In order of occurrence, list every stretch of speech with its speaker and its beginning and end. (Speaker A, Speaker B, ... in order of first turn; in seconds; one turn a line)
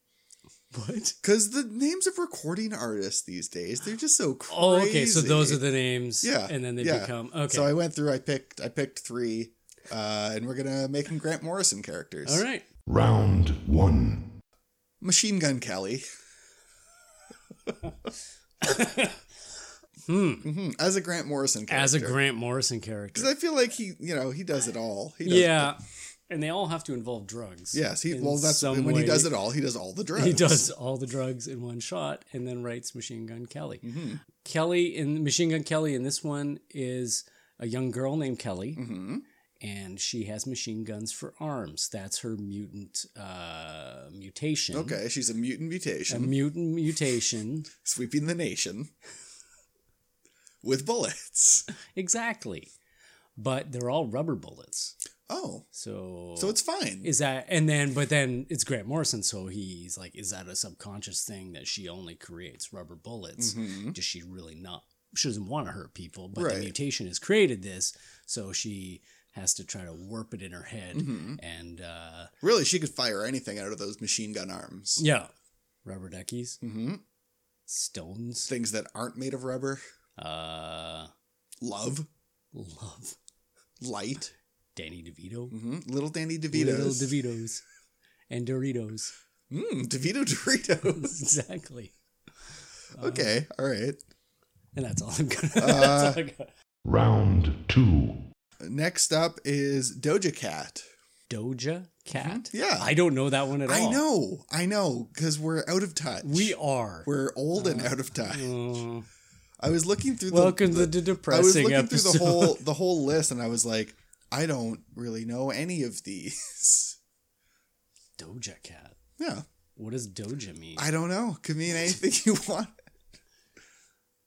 Speaker A: 0.7-1.2
Speaker B: 1.2-5.6
Speaker A: 4.5-7.8
Speaker B: 6.2-12.4
Speaker A: 12.2-12.7
Speaker C: 12.9-14.3
Speaker B: 15.0-16.0
Speaker A: 18.6-19.2
Speaker A: 20.1-20.5
Speaker B: 20.4-22.2
Speaker A: 21.7-23.3
Speaker B: 23.1-25.8
Speaker A: 25.2-29.3
Speaker B: 27.7-30.7
Speaker A: 30.1-38.9
Speaker B: 33.8-34.2
Speaker B: 38.7-39.2
Speaker A: 39.6-45.0
Speaker B: 44.7-46.4
Speaker A: 46.1-47.7
Speaker B: 47.8-48.9
Speaker B: 50.6-51.7
Speaker A: 51.9-52.7
Speaker A: 53.4-55.0
Speaker B: 55.3-55.6
Speaker A: 55.7-72.3
Speaker B: 56.4-57.1
Speaker B: 63.4-64.0
Speaker B: 66.3-66.7
Speaker B: 70.9-71.4
Speaker B: 72.4-75.0
Speaker A: 75.0-75.3
Speaker A: 75.8-76.6
Speaker B: 76.6-77.0
Speaker A: 77.7-78.5
Speaker B: 78.5-79.8
Speaker A: 80.2-81.1
Speaker B: 81.6-82.1
Speaker A: 82.5-83.2
Speaker B: 83.8-84.3
Speaker A: 84.7-85.6
Speaker B: 85.5-87.2
Speaker A: 86.5-87.6
Speaker A: 88.3-89.1
Speaker B: 89.5-91.2
Speaker A: 90.8-91.9
Speaker A: 93.0-93.3
Speaker B: 93.0-94.0
Speaker A: 94.7-96.5
Speaker B: 95.6-96.2
Speaker C: 96.8-98.2
Speaker B: 98.6-100.8
Speaker A: 101.3-104.0
Speaker B: 102.1-103.0
Speaker B: 103.6-108.6
Speaker A: 106.2-109.1
Speaker B: 109.6-117.0
Speaker A: 110.3-112.7
Speaker A: 118.2-119.0
Speaker B: 119.2-119.4
Speaker A: 119.8-120.9
Speaker B: 120.8-122.7